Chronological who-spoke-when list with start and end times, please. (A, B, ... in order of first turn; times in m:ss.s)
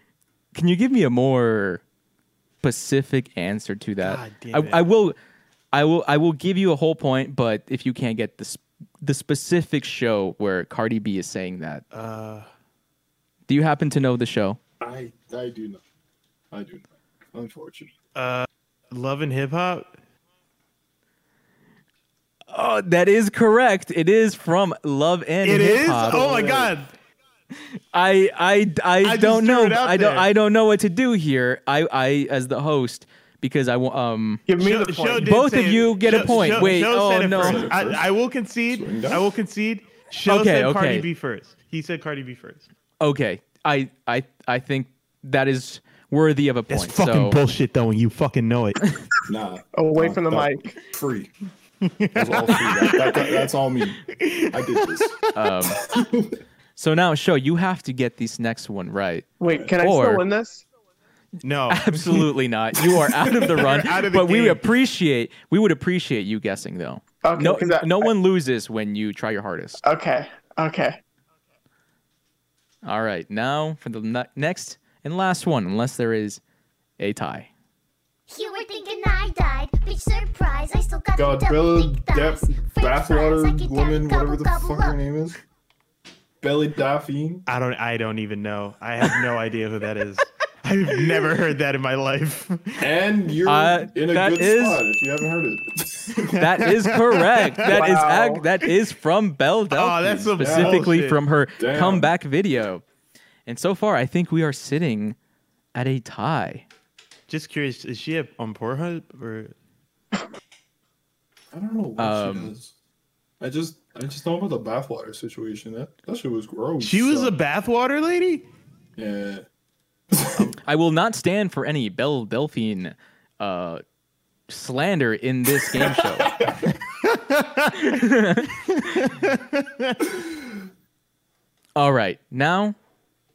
0:00.5-0:01.8 A
0:02.6-0:05.2 A
0:04.0-0:04.8 B
0:05.7-0:11.8 A
0:11.9-0:12.5 B
0:13.5-0:14.6 A
0:14.8-0:15.8 C
0:16.5-0:17.9 C
0:18.2-0:20.0 B
0:22.5-0:26.3 A
0:25.4-0:26.9 B
0:27.9-0:34.4 A
0:29.0-0:30.3 B
0:34.5-0:35.4 D
0:34.6-0:42.7 B
0:35.2-0:37.7 A
0:36.1-0:38.0 C
0:38.7-0:39.3 C
0:40.3-0:41.1 A
0:43.0-0:47.4 A
0:46.7-0:48.8 B
0:49.3-0:51.3 C
0:49.7-0:50.8 D
0:51.8-0:53.4 B
0:52.2-0:55.2 C
0:54.1-0:55.5 B
0:55.4-0:55.8 A
0:55.8-0:56.3 C
0:56.8-0:59.3 A
0:59.4-1:00.6 D
0:59.8-1:00.2 A
1:01.4-1:02.3 B
1:01.7-1:09.8 A
1:03.6-1:04.6 B
1:07.2-1:08.1 D
1:09.8-1:11.0 D
1:12.8-1:16.4 A
1:17.0-1:17.5 A
1:18.3-1:25.0 E
1:21.2-1:25.4 C
1:26.4-1:27.4 C
1:27.5-1:32.9 B
1:32.8-1:36.4 C
1:33.5-1:34.8 A
1:36.4-1:42.8 A
1:36.6-1:37.8 B
1:37.7-1:38.5 D
1:39.7-1:41.2 B
1:40.4-1:40.9 C
1:41.6-1:42.1 C
1:43.5-1:45.2 A
1:45.8-1:46.7 A
1:47.3-1:49.6 B
1:51.5-1:52.7 C
1:52.0-1:52.6 A
1:53.4-1:57.4 C
1:56.8-1:58.5 B
1:59.0-1:59.4 C
2:00.1-2:00.5 C
2:00.6-2:03.8 A
2:04.5-2:06.4 A
2:05.8-2:06.7 C
2:07.0-2:08.0 B
2:07.9-2:08.6 A
2:08.7-2:10.0 B
2:11.8-2:12.8 A